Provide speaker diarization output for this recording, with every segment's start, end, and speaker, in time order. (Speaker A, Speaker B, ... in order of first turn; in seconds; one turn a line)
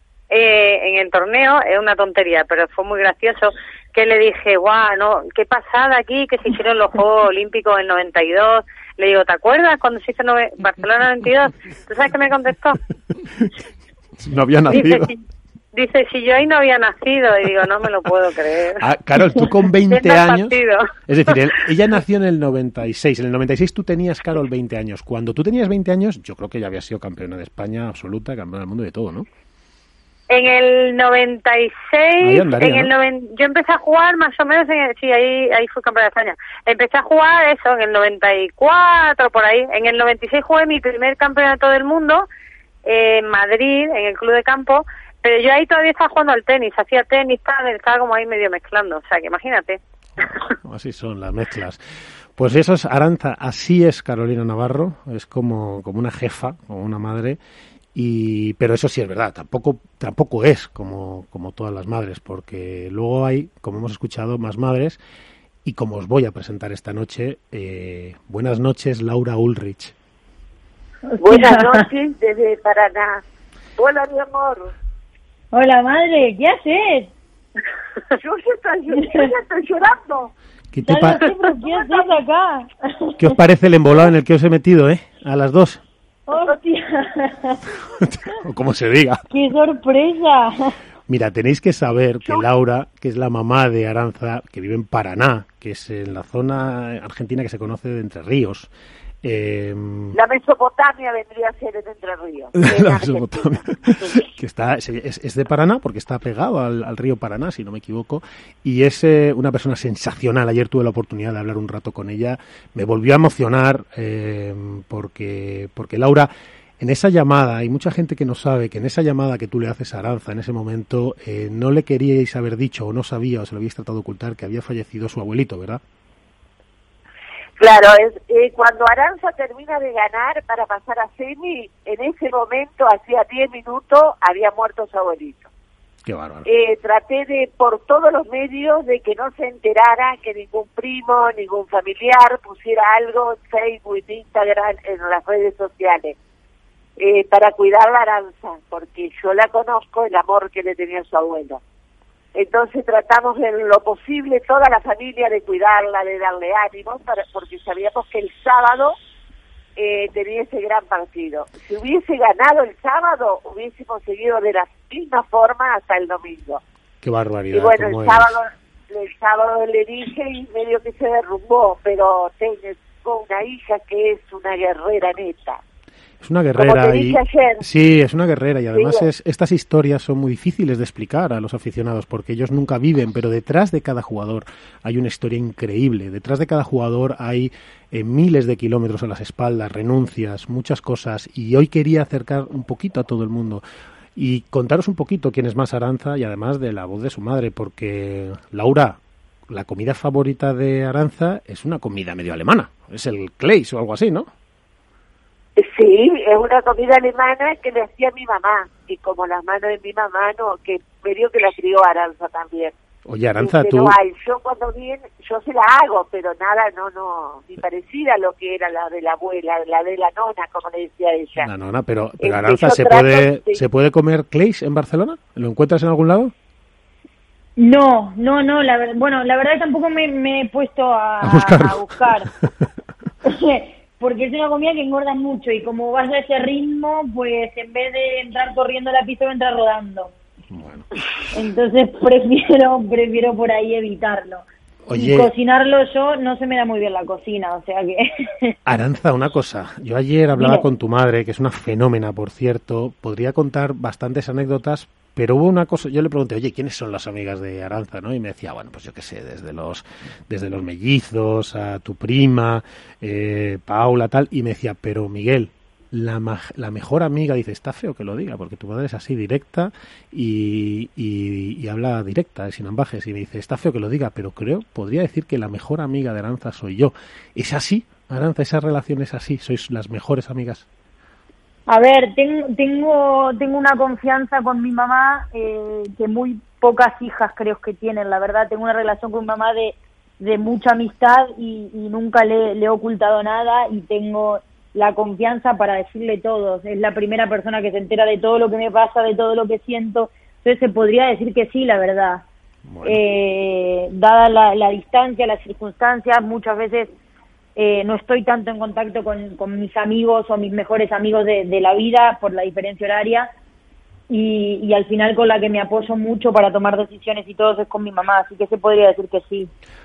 Speaker A: 0.3-12.8
Speaker B: 14.2-15.1
Speaker A: 14.7-15.2
Speaker A: 15.7-18.8
Speaker B: 18.8-20.6
Speaker A: 19.9-20.8
Speaker B: 21.1-29.3
Speaker A: 30.3-42.3
Speaker B: 32.2-32.9
Speaker A: 42.9-49.8
Speaker B: 50.2-51.8
Speaker B: 52.4-57.4
Speaker B: 57.9-65.0
Speaker B: 65.6-69.9
Speaker C: 71.1-71.8
Speaker D: 71.2-73.2
Speaker D: 73.8-74.7
Speaker C: 75.5-77.1
Speaker D: 78.2-80.3
Speaker C: 79.0-79.3
Speaker B: 80.7-81.2
Speaker C: 80.8-83.3
Speaker D: 81.7-82.1
Speaker B: 83.2-85.8
Speaker C: 86.3-87.6
Speaker B: 88.0-89.2
Speaker C: 89.3-90.7
Speaker B: 91.1-98.7
Speaker B: 99.2-100.2
Speaker D: 100.1-103.2
Speaker B: 102.5-125.8
Speaker D: 127.6-135.5
Speaker B: 136.0-136.4
Speaker D: 136.4-146.2
Speaker D: 147.0-151.6
Speaker D: 152.3-158.9
Speaker D: 159.8-166.6
Speaker B: 167.0-168.4
Speaker D: 167.5-175.6
Speaker B: 176.2-193.6
Speaker D: 176.6-177.6
Speaker D: 178.7-179.0
Speaker B: 194.2-204.3
Speaker D: 205.6-212.7
Speaker B: 213.1-213.9
Speaker D: 213.4-221.5
Speaker B: 221.4-226.3
Speaker D: 222.2-223.6
Speaker C: 227.6-232.3
Speaker B: 231.2-232.3
Speaker C: 233.3-240.1
Speaker B: 240.5-240.8
Speaker C: 241.3-248.5
Speaker B: 244.8-245.3
Speaker B: 248.7-280.6
Speaker C: 250.3-250.7
Speaker C: 281.7-302.2
Speaker B: 302.7-303.0
Speaker C: 302.8-306.9
Speaker C: 307.6-313.3
Speaker C: 314.1-319.5